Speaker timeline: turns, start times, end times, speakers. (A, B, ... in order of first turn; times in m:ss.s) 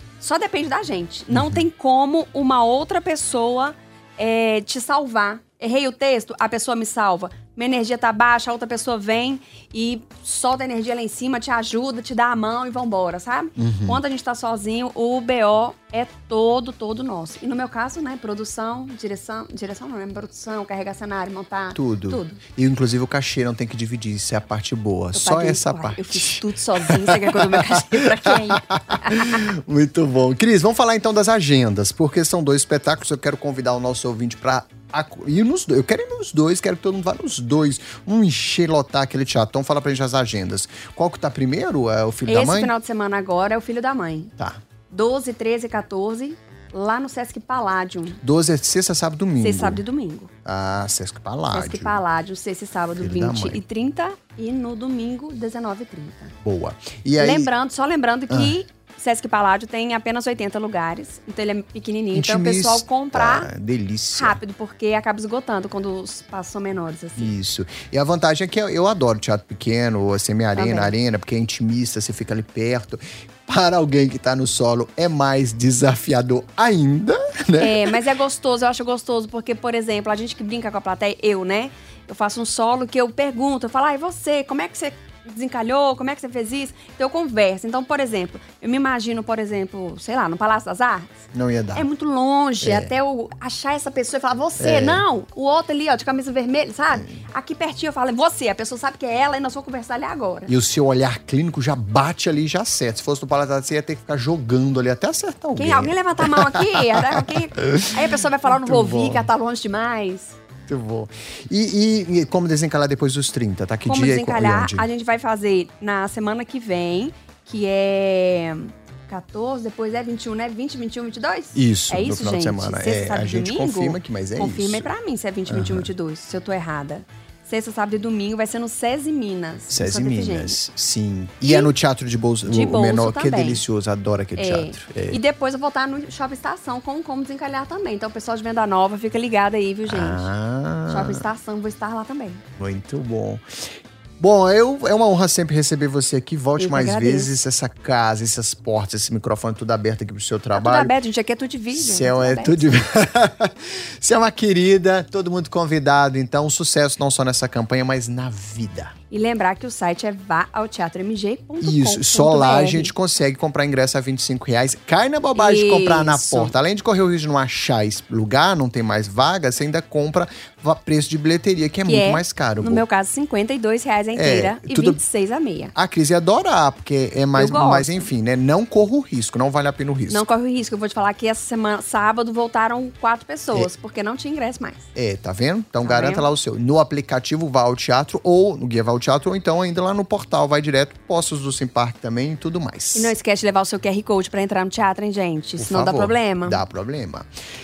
0:00.2-0:22.4 A
0:01.3-0:01.6 B
0:13.6-0:14.0 B
0:21.7-0:42.7 B
0:25.1-0:29.4 A
0:42.2-0:44.3 A
0:44.9-0:48.2 A
0:48.2-0:49.8 B
0:49.4-0:50.3 A
0:50.4-0:52.0 B
0:51.5-0:56.3 A
0:53.0-0:53.6 B
0:56.4-0:57.5 B
0:57.2-1:03.5 A
0:58.3-0:58.6 B
1:02.1-1:04.4 B
1:04.1-1:07.3 A
1:07.2-1:18.0 B
1:10.5-1:10.9 A
1:17.6-1:31.2 A
1:31.3-1:31.8 B
1:31.7-1:40.5 A
1:32.6-1:32.9 B
1:34.6-1:35.0 B
1:36.9-1:37.2 B
1:40.5-1:49.3 B
1:45.5-1:50.4 A
1:50.7-1:54.9 B
1:53.8-2:10.6 A
2:01.5-2:04.9 B
2:05.5-2:05.9 B
2:09.7-2:15.2 B
2:11.4-2:11.7 A
2:12.4-2:13.6 A
2:14.4-2:20.3 A
2:19.9-2:21.2 B
2:20.9-2:22.4 A
2:22.6-2:23.4 B
2:24.2-2:30.9 B
2:26.6-2:27.3 A
2:30.5-2:32.7 A
2:31.7-2:38.9 B
2:39.1-2:42.9 A
2:41.6-2:52.8 B
2:45.4-2:46.5 A
2:51.8-2:55.7 A
2:54.1-2:55.0 B
2:55.7-3:00.2 B
2:57.3-2:58.1 A
3:00.1-3:04.8 A
3:04.9-3:13.1 B
3:05.8-3:06.3 A
3:12.9-3:16.6 A
3:15.6-3:17.3 B